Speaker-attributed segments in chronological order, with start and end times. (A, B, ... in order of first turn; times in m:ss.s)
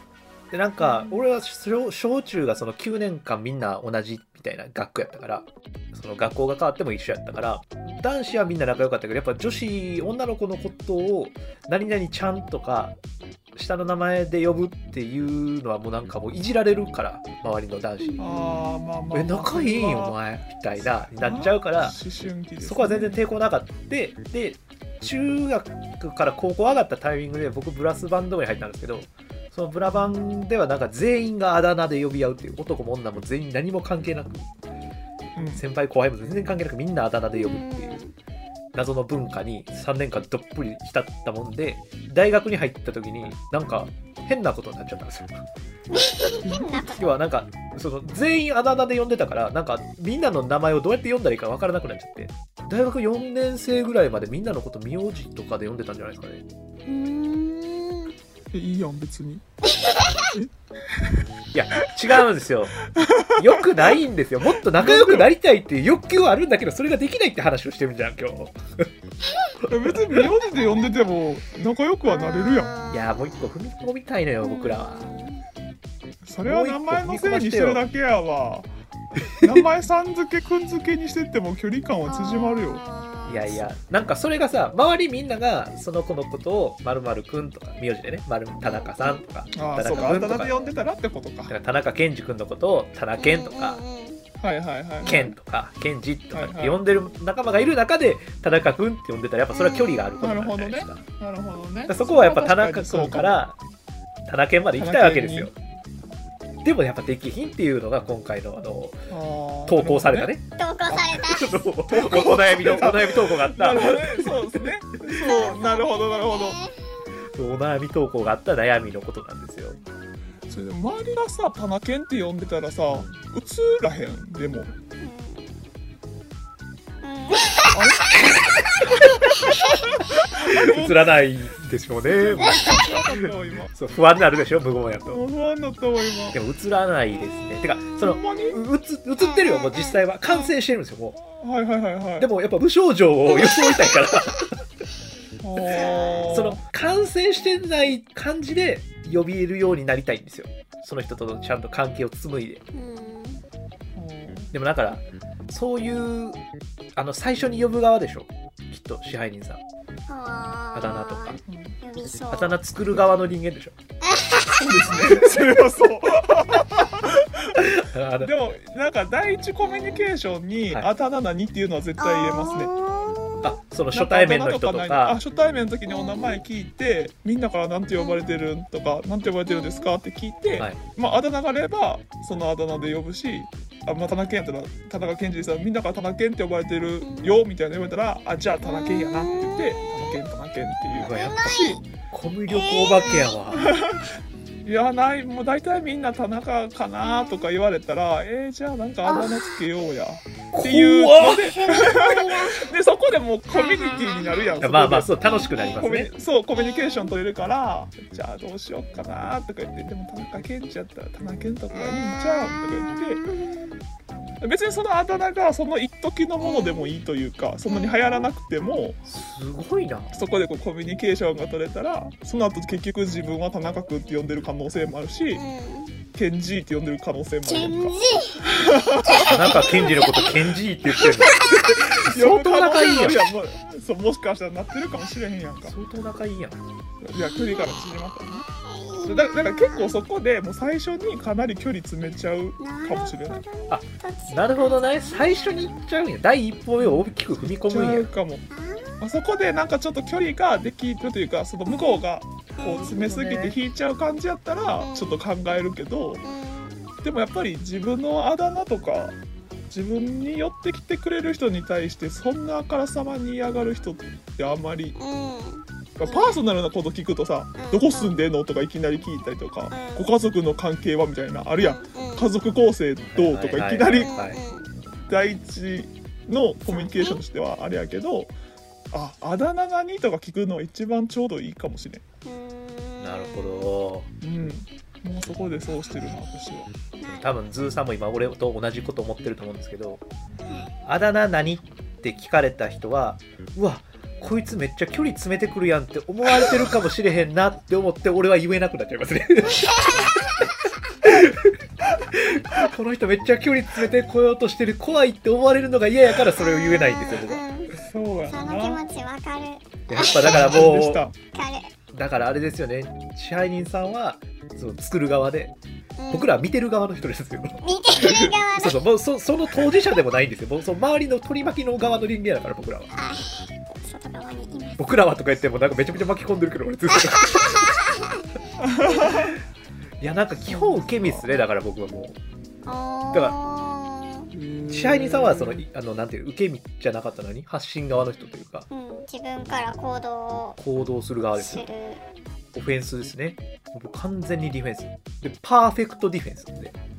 0:00.5-0:13.0 A
0:13.6-0:18.2 A
0:18.0-0:18.9 B
0:18.2-0:20.2 C
0:19.1-0:22.0 A
0:20.8-0:23.2 C
0:22.6-0:34.5 A
0:29.8-0:30.2 C
0:35.4-0:35.6 C
0:35.5-0:38.0 A
0:37.3-0:38.1 B
0:38.7-0:45.3 A
0:45.9-0:47.1 B
0:46.4-0:46.8 C
0:46.7-0:56.4 A
0:56.9-0:58.1 B
0:58.5-0:59.4 C
0:59.8-1:00.1 B
1:00.3-1:01.0 C
1:01.5-1:02.8 A
1:02.9-1:04.0 C
1:03.4-1:08.9 A
1:04.8-1:05.3 C
1:09.7-1:12.8 C
1:12.1-1:13.5 B
1:12.9-1:15.1 A
1:14.4-1:15.4 B
1:16.2-1:18.7 C
1:16.4-1:17.9 A
1:19.4-1:22.8 C
1:22.1-1:23.7 B
1:23.3-1:30.5 A
1:28.6-1:29.3 B
1:29.5-1:31.5 C
1:29.9-1:30.7 B
1:31.5-1:33.8 A
1:33.2-1:34.2 B
1:34.4-1:35.4 C
1:35.0-1:41.0 A
1:36.3-1:36.8 C
1:39.5-1:40.3 B
1:40.2-1:43.4 C
1:41.9-1:43.6 A
1:44.3-1:45.5 A
1:44.8-1:45.5 C
1:46.6-1:49.0 A
1:49.1-1:50.3 C
1:49.7-1:50.4 A
1:50.6-1:51.7 B
1:50.9-1:51.2 C
1:51.2-1:54.7 A
1:51.9-1:56.6 C
1:55.2-1:56.9 B
1:57.3-1:59.8 A
2:00.5-2:04.7 C
2:05.0-2:05.7 B
2:07.0-2:07.8 B
2:07.7-2:08.2 C
2:08.7-2:10.0 B
2:10.3-2:11.2 C
2:10.5-2:15.2 A
2:12.1-2:13.7 C
2:12.4-2:12.9 B
2:15.1-2:16.4 C
2:16.3-2:21.2 A
2:17.2-2:17.9 B
2:18.0-2:18.6 C
2:19.2-2:20.6 B
2:21.2-2:22.3 C
2:22.2-2:24.6 A
2:23.3-2:23.8 B
2:25.4-2:26.6 C
2:25.7-2:26.4 B
2:26.3-2:32.6 A
2:32.7-2:33.4 B
2:34.0-2:34.5 C
2:34.5-2:36.4 A
2:37.0-2:39.6 A
2:40.1-2:42.6 B
2:40.8-2:41.4 A
2:41.5-2:41.8 C
2:42.3-2:43.8 A
2:44.0-2:44.6 B
2:44.6-2:47.7 C
2:47.6-2:48.3 A
2:48.2-2:52.7 C
2:49.6-2:50.1 B
2:52.0-2:53.6 B
2:53.4-2:55.2 A
2:53.9-3:11.8 C
2:55.9-2:56.4 B
2:58.0-2:58.2 B
2:59.5-2:59.9 B
3:07.0-3:07.4 B
3:08.6-3:10.2 B
3:10.9-3:11.8 B
3:11.0-3:13.7 A
3:12.5-3:13.8 B
3:13.6-3:14.1 C
3:14.6-3:25.2 C
3:17.0-3:17.5 B
3:19.0-3:19.6 B
3:20.6-3:21.5 A
3:21.4-3:22.7 B
3:23.5-3:24.7 B
3:24.6-3:26.1 A
3:25.2-3:25.8 B
3:25.8-3:33.2 C
3:26.5-3:27.2 B
3:31.7-3:33.8 B
3:34.4-3:39.0 C
3:36.4-3:36.9 B
3:37.7-3:38.3 B
3:39.1-3:40.1 A
3:40.1-3:45.4 C
3:45.3-3:46.0 B
3:46.1-3:47.9 C
3:47.4-3:50.3 B
3:48.5-3:49.8 C
3:49.2-3:51.4 A
3:51.1-3:51.4 B
3:51.3-3:55.8 C
3:52.1-3:53.3 A
3:55.7-3:56.6 A
3:57.0-3:58.4 C
3:57.2-4:00.0 B
3:59.1-4:03.4 C
4:02.6-4:05.9 B
4:03.7-4:08.1 A
4:06.8-4:08.5 C
4:08.5-4:09.0 B
4:09.0-4:16.2 C
4:11.7-4:12.0 B
4:12.6-4:12.9 B
4:12.6-4:13.6 A
4:14.8-4:15.2 B
4:16.2-4:16.9 B
4:17.0-4:19.2 C
4:19.7-4:25.0 C
4:25.0-4:26.4 B
4:26.0-4:34.1 C
4:27.6-4:28.1 B
4:29.7-4:30.1 B
4:31.6-4:32.3 B
4:33.1-4:34.4 A
4:34.0-4:34.7 B
4:35.1-4:38.3 C
4:36.7-4:37.2 B
4:38.9-4:42.0 C
4:42.2-4:43.7 B
4:43.0-4:44.1 A
4:44.2-4:46.7 C
4:47.0-4:47.3 B
4:47.0-4:50.0 A
4:50.5-4:50.7 B
4:50.8-5:00.0 A
5:01.0-5:01.6 A
5:02.1-5:07.4 A
5:06.4-5:07.8 B
5:07.8-5:08.8 C
5:08.3-5:10.5 B
5:09.9-5:11.1 A
5:10.1-5:11.2 C
5:11.3-5:11.7 B
5:11.9-5:15.6 A
5:16.0-5:16.4 B
5:16.1-5:22.9 A
5:17.6-5:18.8 B
5:22.9-5:25.0 B
5:24.8-5:27.8 A
5:26.9-5:28.3 B
5:28.6-5:29.4 C
5:28.8-5:29.2 B
5:30.0-5:32.2 A
5:30.4-5:31.2 C
5:32.6-5:34.3 B
5:34.3-5:35.6 C
5:34.7-5:38.7 A
5:38.7-5:40.6 B
5:40.6-5:41.7 A
5:41.4-5:42.0 B
5:42.5-5:46.8 A